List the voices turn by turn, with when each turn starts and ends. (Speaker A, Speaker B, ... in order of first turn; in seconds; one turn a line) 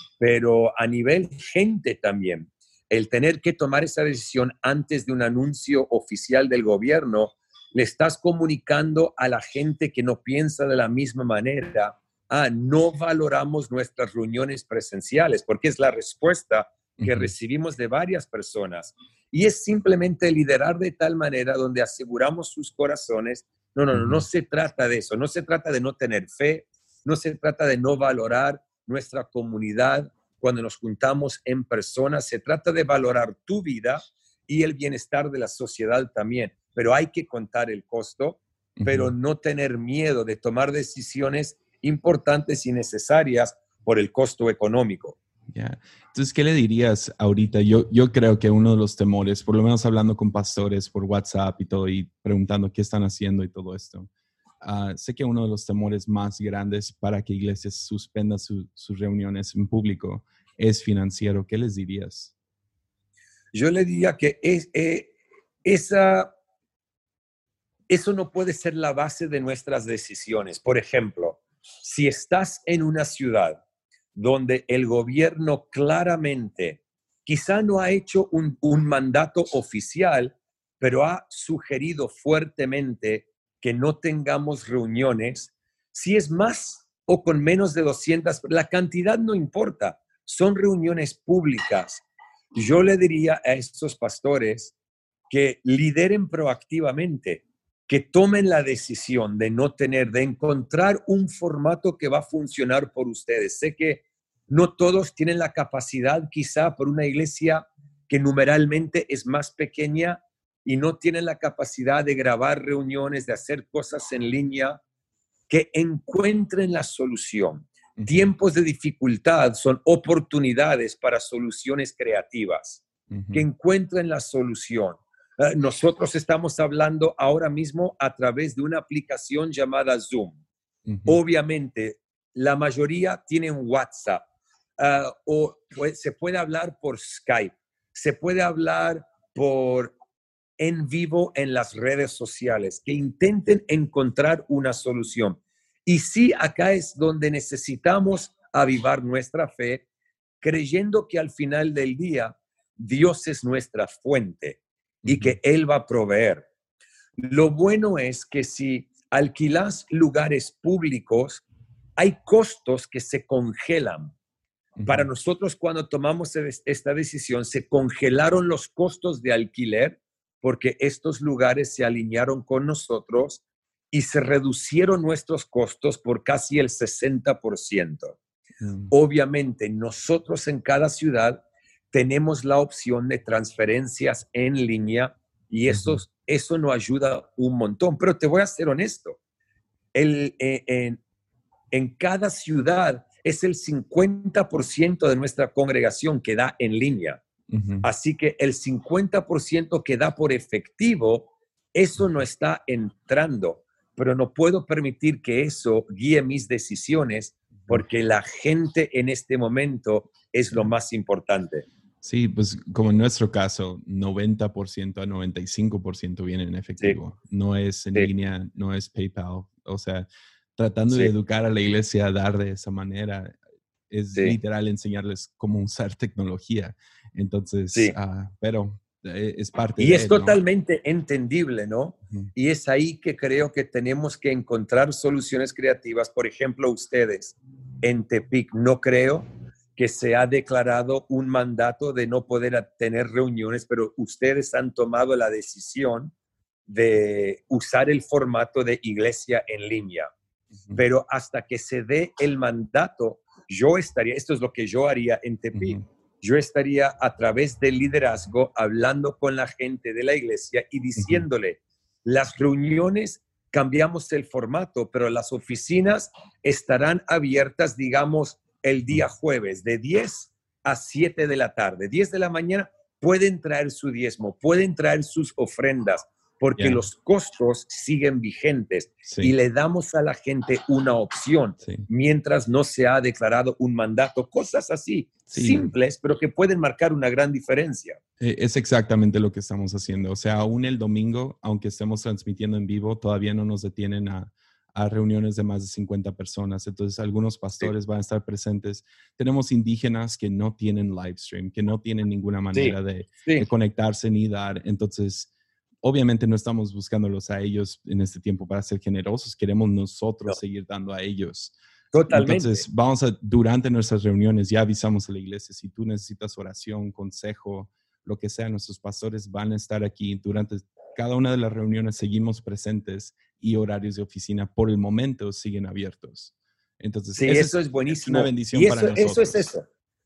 Speaker A: 0.2-45.2
Speaker B: 17.0-17.3
Speaker B: 23.9-24.2
Speaker B: 38.8-39.1
Speaker B: 45.5-54.1
Speaker B: 54.6-62.3
Speaker A: 63.5-66.3
Speaker A: 67.9-73.6
Speaker A: 74.2-94.7
Speaker A: 95.3-114.8
Speaker A: 115.5-130.4
Speaker B: 118.0-118.3
Speaker B: 123.1-123.5
Speaker B: 130.9-131.2
Speaker A: 131.1-134.2
Speaker A: 134.8-139.9
Speaker A: 140.6-149.9
Speaker A: 150.4-156.5
Speaker B: 155.0-155.4
Speaker A: 157.2-161.4
Speaker A: 162.0-164.1
Speaker B: 164.8-165.1
Speaker A: 164.9-178.2
Speaker B: 178.6-178.9
Speaker A: 178.9-189.2
Speaker B: 185.7-186.0
Speaker A: 189.9-191.0
Speaker A: 191.7-197.2
Speaker B: 197.5-197.8
Speaker A: 197.8-211.7
Speaker B: 212.0-223.4
Speaker B: 223.9-230.4
Speaker A: 229.8-246.1
Speaker A: 246.7-250.1
Speaker A: 250.7-288.0
Speaker B: 255.6-255.8
Speaker B: 261.0-261.2
Speaker B: 276.6-276.8
Speaker B: 279.0-279.3
Speaker B: 281.6-281.9
Speaker B: 285.3-285.7
Speaker B: 288.2-305.3
Speaker A: 302.5-303.5
Speaker B: 305.8-311.5
Speaker A: 311.9-312.6
Speaker B: 312.1-329.5
Speaker A: 327.2-329.6